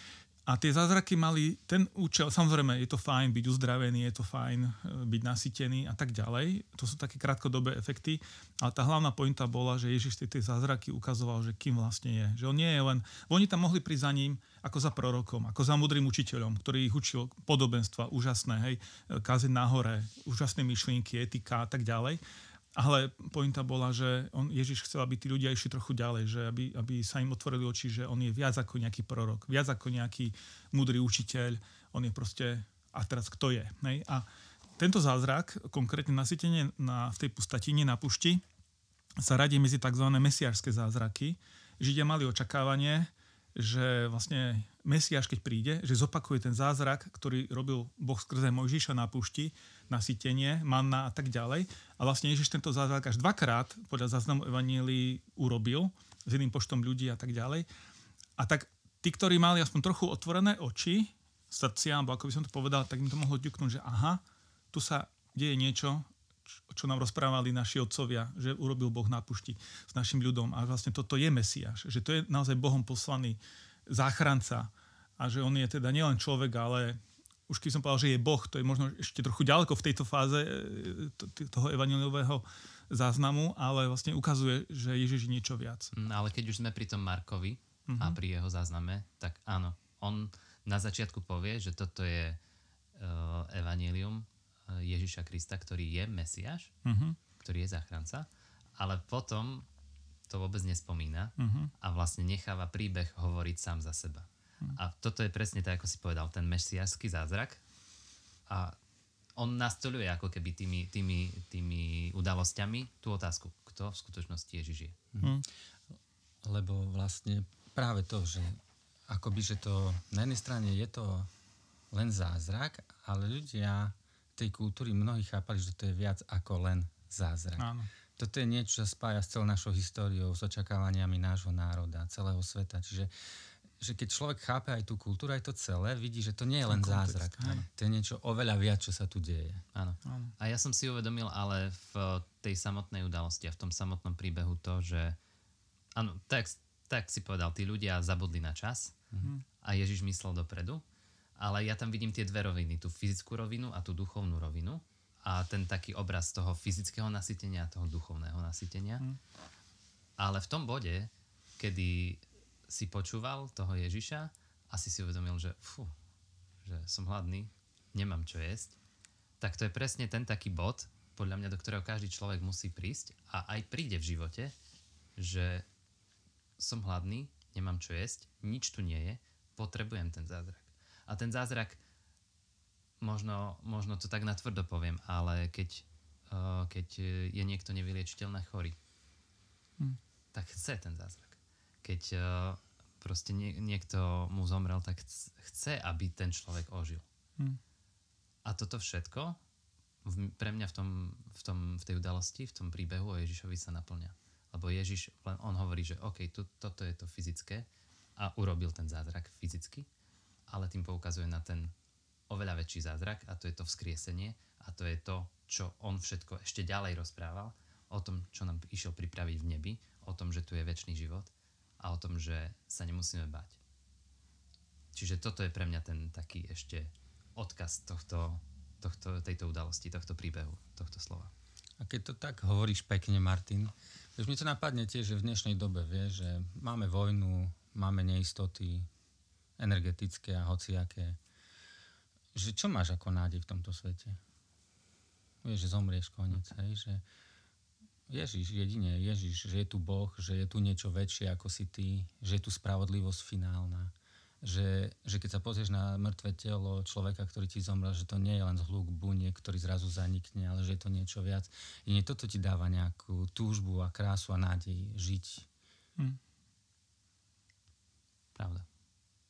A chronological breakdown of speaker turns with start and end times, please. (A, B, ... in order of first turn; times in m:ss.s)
0:00.5-0:22.2 A
0:22.8-0:34.2 A
0:34.8-0:38.4 A
0:39.2-0:57.6 A
0:58.4-1:04.2 A
1:04.7-1:06.0 A
1:06.7-1:25.9 A
1:25.9-1:32.4 B
1:27.9-1:28.2 A
1:33.0-1:36.7 B
1:36.8-1:37.2 A
1:37.4-1:39.7 B
1:40.3-1:47.6 B
1:41.4-1:41.7 A
1:48.5-1:48.8 B
1:49.4-1:55.0 B
1:56.4-1:58.6 C
1:59.1-2:01.3 C
2:01.9-2:13.1 C
2:07.6-2:07.9 A
2:13.8-2:19.6 C
2:16.7-2:17.6 A
2:19.7-2:25.2 B
2:20.0-2:20.3 A
2:25.9-2:29.0 B
2:29.6-2:30.8 B
2:31.4-2:39.0 B
2:40.2-2:45.9 B
2:46.6-2:48.8 B
2:49.4-2:54.5 B
2:55.2-2:55.6 B
2:56.6-3:01.8 B
3:03.0-3:08.8 B
3:10.3-3:17.0 B
3:18.4-3:19.4 B
3:20.0-3:29.9 B
3:30.5-3:31.7 B
3:32.3-3:43.6 B
3:44.9-3:51.3 B
3:51.8-3:58.9 C
3:59.6-4:01.2 C
4:02.3-4:04.2 C
4:05.4-4:07.0 C
4:08.1-4:25.5 C
4:28.4-4:28.6 B